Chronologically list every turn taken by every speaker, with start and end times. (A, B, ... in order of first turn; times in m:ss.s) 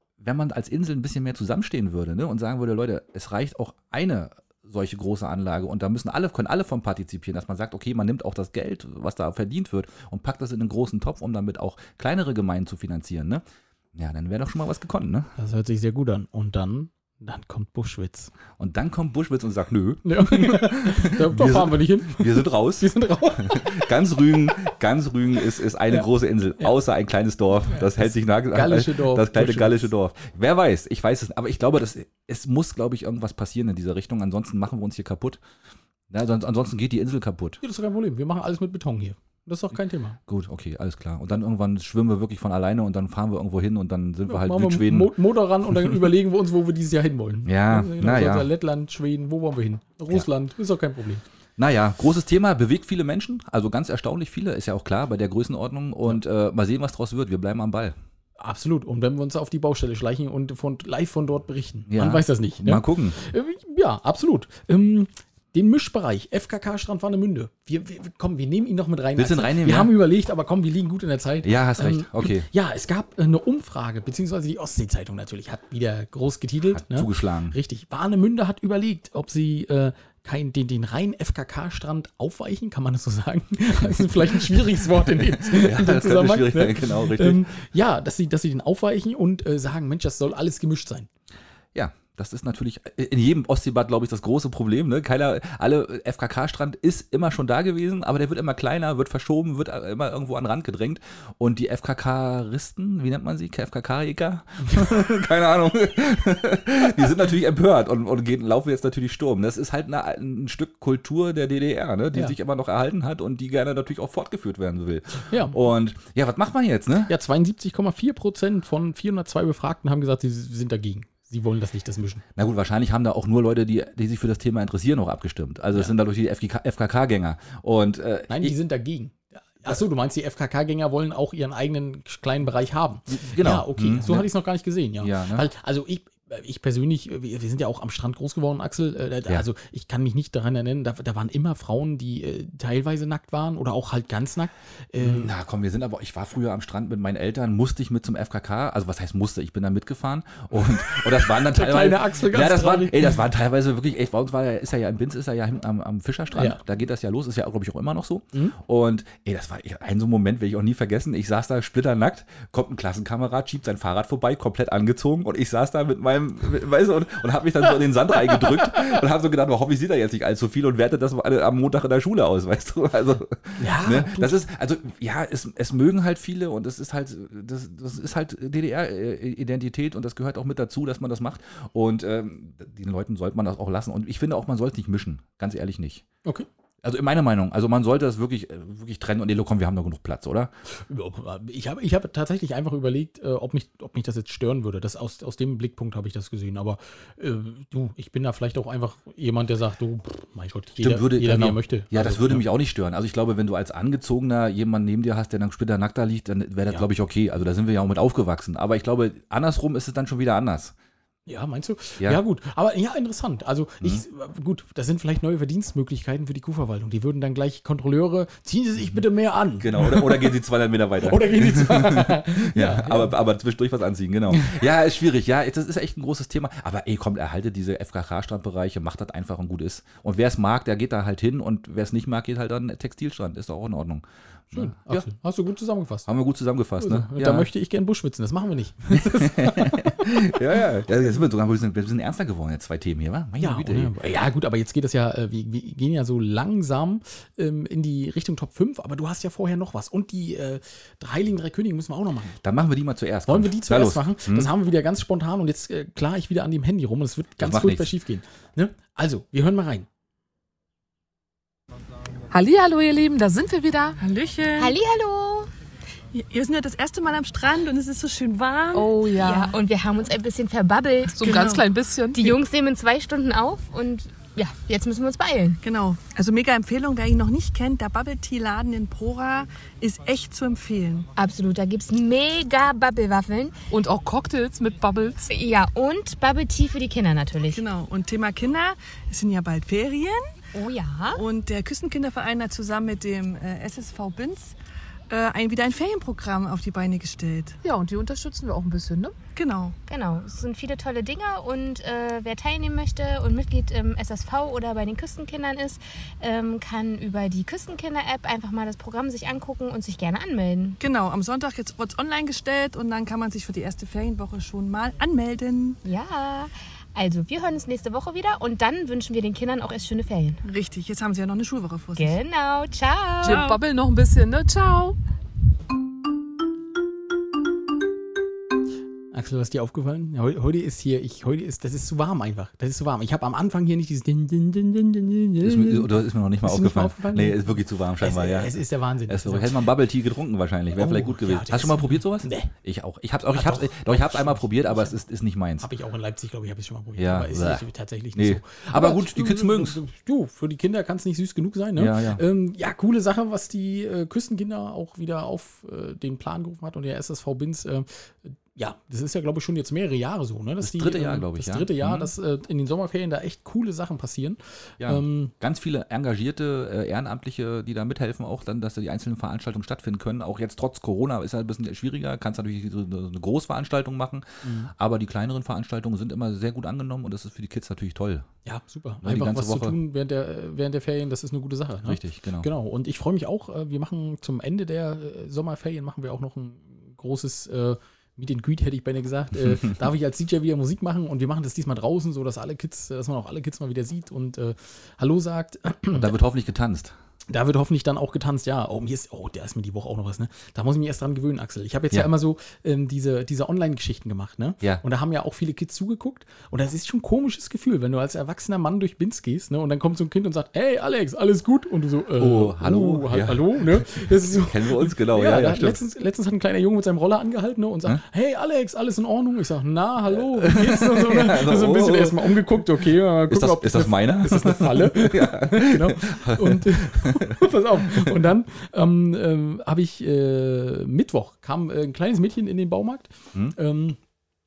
0:00.2-0:13.4 A
0:13.9-0:15.3 A
0:15.4-0:18.3 B
0:18.6-0:35.4 A
0:20.0-0:23.9 B
0:27.7-0:29.9 B
0:36.1-0:37.6 A
0:37.6-0:40.2 B
0:40.3-0:45.1 A
0:44.3-0:51.2 B
0:47.4-0:48.5 A
0:51.6-0:58.0 A
0:58.4-1:31.1 B
1:01.9-1:03.2 A
1:09.2-1:09.9 A
1:11.4-1:12.5 A
1:16.7-1:17.6 A
1:23.9-1:27.5 A
1:31.7-1:57.1 A
1:55.3-1:55.5 B
1:57.1-2:02.2 B
2:02.4-2:08.5 A
2:08.3-2:25.3 B
2:13.1-2:14.3 A
2:15.0-2:15.5 A
2:25.0-3:06.0 A
2:30.8-2:33.2 B
2:53.6-2:54.4 B
3:06.8-3:10.5 A
3:10.8-3:22.4 B
3:20.8-3:30.7 A
3:31.3-3:40.4 B
3:39.6-3:55.0 A
3:41.0-3:43.1 B
3:44.3-3:44.6 B
3:54.5-3:56.1 B
3:56.1-3:57.5 A
3:56.8-4:00.4 B
3:58.9-4:03.9 A
4:03.4-4:12.4 B
4:12.4-4:14.5 A
4:13.3-4:19.9 B
4:17.4-4:17.9 A
4:22.3-4:24.0 C
4:24.0-4:24.7 D
4:24.6-4:25.5 E
4:26.1-4:28.9 D
4:28.7-4:29.6 C
4:28.9-4:31.6 E
4:31.1-4:32.4 C
4:31.2-4:31.6 D
4:32.1-4:35.6 E
4:35.6-4:41.1 D
4:41.2-4:43.6 E
4:43.7-4:45.3 C
4:45.2-4:47.6 E
4:47.5-4:50.3 D
4:50.5-4:51.2 E
4:51.1-4:54.5 D
4:55.1-4:57.6 D
4:57.6-4:59.1 C
4:59.4-4:59.8 D
4:59.9-5:10.8 E
5:10.8-5:15.8 D
5:15.8-5:20.4 E
5:20.4-5:22.2 D
5:22.0-5:23.4 E
5:23.2-5:23.6 D
5:23.2-5:25.0 C
5:29.1-5:39.7 B
5:35.4-5:45.7 A
5:40.7-5:42.5 B
5:43.3-5:45.0 B
5:45.6-6:05.3 B
5:47.0-5:49.8 A
5:51.8-5:52.2 A
6:00.6-6:02.1 A
6:04.8-6:18.3 A
6:14.4-6:14.7 B
6:18.4-6:36.1 B
6:19.0-6:19.8 A
6:21.8-6:22.5 A
6:35.9-6:36.9 A
6:37.3-7:14.0 B
6:52.2-6:55.8 A
7:00.1-7:02.6 A
7:03.2-7:08.1 A